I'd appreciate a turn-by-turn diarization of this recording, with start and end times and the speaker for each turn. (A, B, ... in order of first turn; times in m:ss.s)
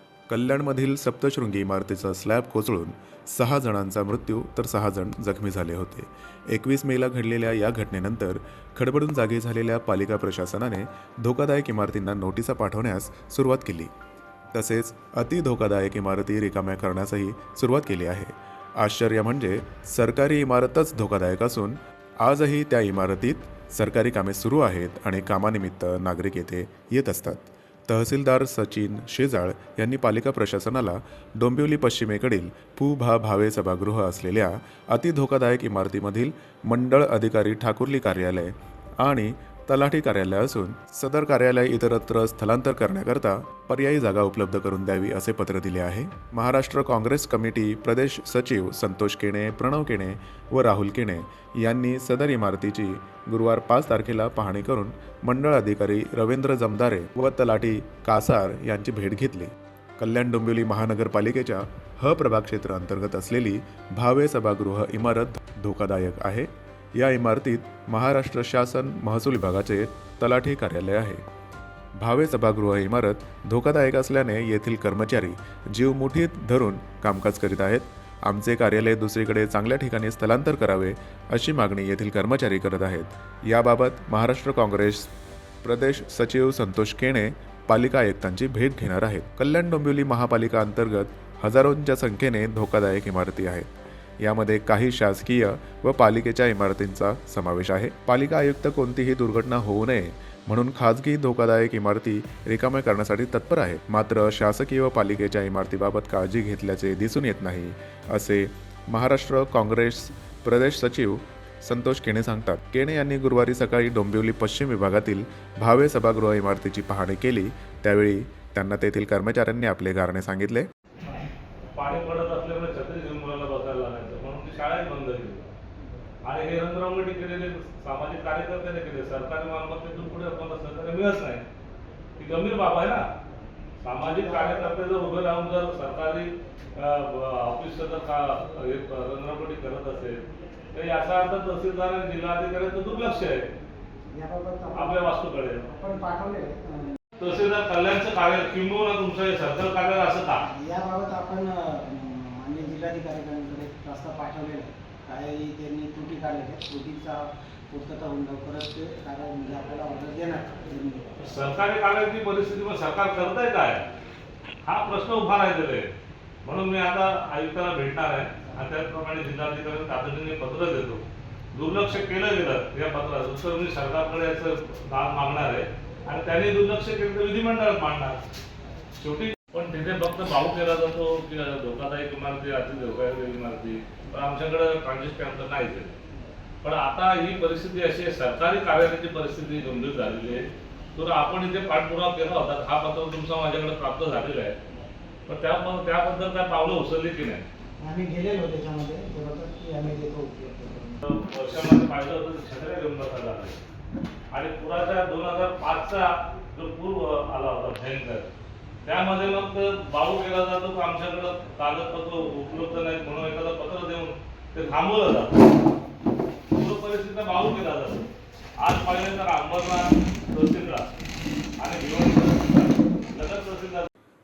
0:00.3-0:13.9 A
0:14.5-1:11.2 A
1:12.0-2:00.7 A
2:01.8-2:05.5 B
2:06.2-2:11.4 B
2:12.2-2:13.1 B
2:13.8-2:23.5 B
2:14.0-2:14.8 C
2:24.1-2:25.0 C
2:24.7-2:25.7 B
2:25.6-2:27.0 C
2:27.2-2:30.4 B
2:30.4-2:41.1 C
2:41.2-2:43.8 B
2:44.6-2:45.9 B
2:46.4-2:51.0 B
2:51.5-2:58.2 B
2:59.0-3:06.0 B
3:06.6-3:14.6 B
3:15.3-3:17.5 B
3:17.8-3:21.0 C
3:21.0-3:23.6 B
3:24.3-3:28.3 B
3:28.8-3:35.5 B
3:36.5-3:40.9 B
3:41.6-3:43.9 B